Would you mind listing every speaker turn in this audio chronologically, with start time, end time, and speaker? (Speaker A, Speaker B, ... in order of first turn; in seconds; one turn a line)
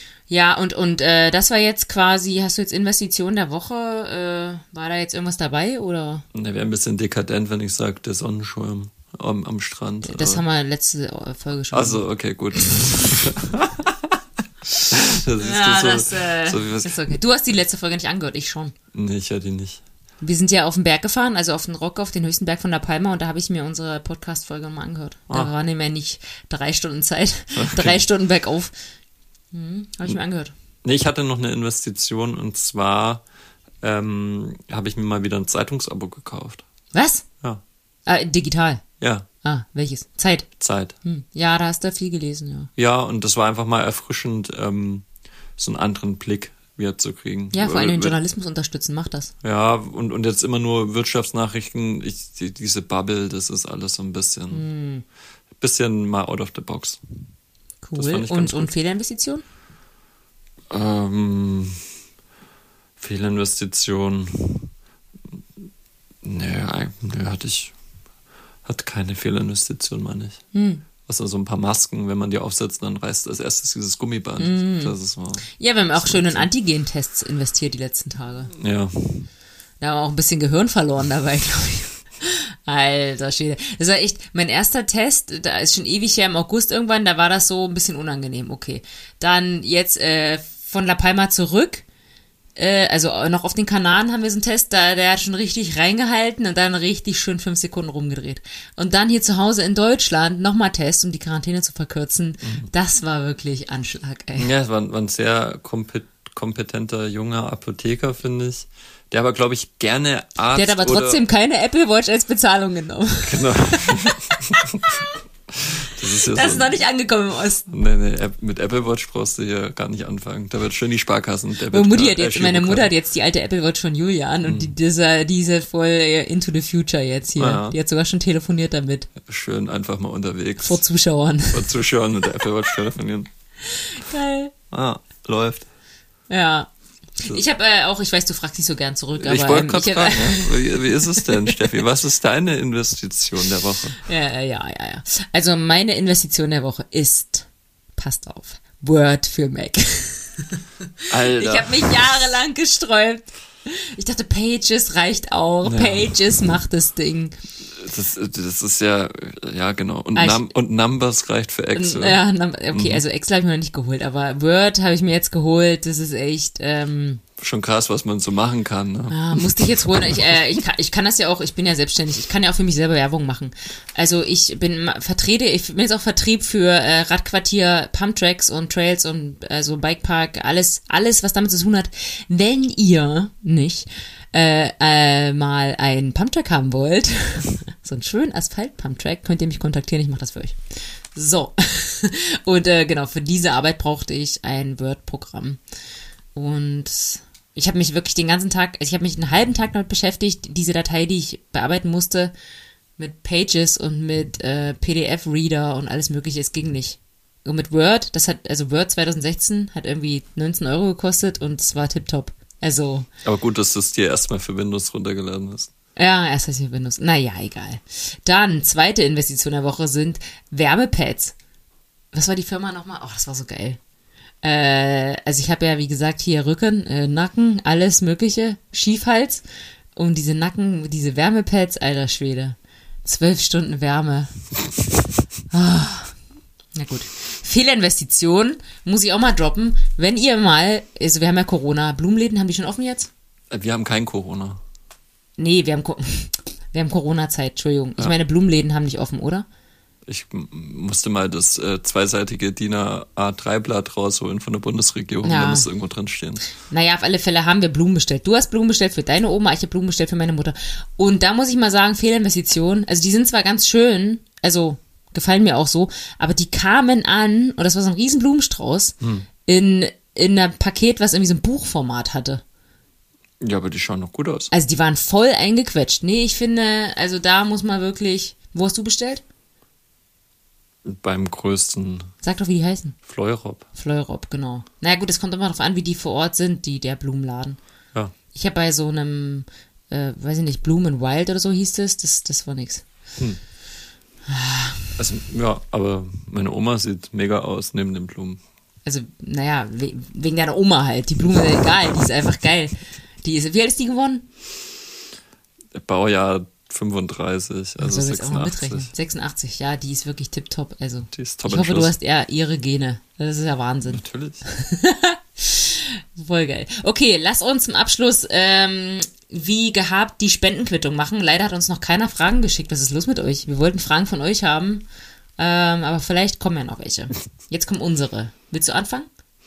Speaker A: 0.3-6.2
Speaker B: 6.3-10.4
Speaker A: 10.0-12.0
Speaker B: 11.7-14.2
Speaker B: 14.8-17.0
Speaker A: 15.4-18.7
Speaker B: 18.9-19.8
Speaker A: 20.2-28.7
Speaker B: 27.6-28.0
Speaker A: 29.5-30.5
Speaker B: 30.8-33.2
Speaker B: 33.8-36.6
Speaker A: 36.9-37.2
Speaker A: 38.0-38.8
Speaker B: 39.0-39.3
Speaker A: 39.4-40.5
Speaker B: 40.6-40.9
Speaker A: 41.0-42.7
Speaker B: 42.8-45.0
Speaker B: 45.6-48.2
Speaker A: 47.5-49.3
Speaker B: 49.4-54.6
Speaker A: 54.5-55.0
Speaker B: 55.6-57.0
Speaker A: 57.8-59.4
Speaker B: 58.0-58.7
Speaker B: 60.7-61.8
Speaker B: 63.0-64.7
Speaker B: 66.2-67.7
Speaker B: 68.6-70.4
Speaker A: 70.5-70.8
Speaker B: 71.0-76.5
Speaker A: 74.4-74.9
Speaker A: 75.6-78.5
Speaker B: 78.5-79.3
Speaker A: 79.8-91.8
Speaker A: 92.5-104.5
Speaker B: 102.4-102.7
Speaker B: 104.4-111.2
Speaker A: 110.5-115.0
Speaker B: 113.2-116.8
Speaker A: 116.2-117.7
Speaker B: 117.7-122.9
Speaker A: 121.7-129.1
Speaker B: 124.5-124.7
Speaker B: 127.4-127.8
Speaker B: 129.2-130.8
Speaker A: 130.6-131.7
Speaker B: 131.5-133.3
Speaker A: 133.6-134.5
Speaker B: 134.7-135.7
Speaker A: 136.3-141.7
Speaker B: 139.2-144.0
Speaker A: 144.0-157.4
Speaker B: 151.1-152.1
Speaker B: 155.6-156.1
Speaker B: 157.7-162.2
Speaker A: 160.1-160.5
Speaker A: 161.7-167.2
Speaker B: 162.7-163.0
Speaker B: 167.4-170.4
Speaker A: 169.1-195.6
Speaker A: 196.3-202.3
Speaker A: 203.0-213.1
Speaker B: 213.2-215.7
Speaker A: 215.9-221.3
Speaker A: 222.1-223.8
Speaker A: 224.4-229.4
Speaker A: 229.9-234.4
Speaker A: 235.5-236.2
Speaker A: 236.8-243.1
Speaker B: 243.5-244.6
Speaker A: 245.4-249.4
Speaker B: 250.1-256.4
Speaker A: 255.2-255.7
Speaker A: 256.7-272.4
Speaker B: 269.0-269.3
Speaker B: 273.4-274.5
Speaker A: 274.5-279.2
Speaker B: 280.8-282.1
Speaker A: 282.2-283.0
Speaker B: 283.1-283.6
Speaker A: 283.7-287.6
Speaker A: 288.3-292.8
Speaker A: 294.3-294.9
Speaker B: 295.0-298.4
Speaker A: 298.9-304.2
Speaker B: 305.7-308.9
Speaker A: 307.8-324.9
Speaker B: 311.1-311.9
Speaker B: 313.9-314.4
Speaker A: 325.4-329.1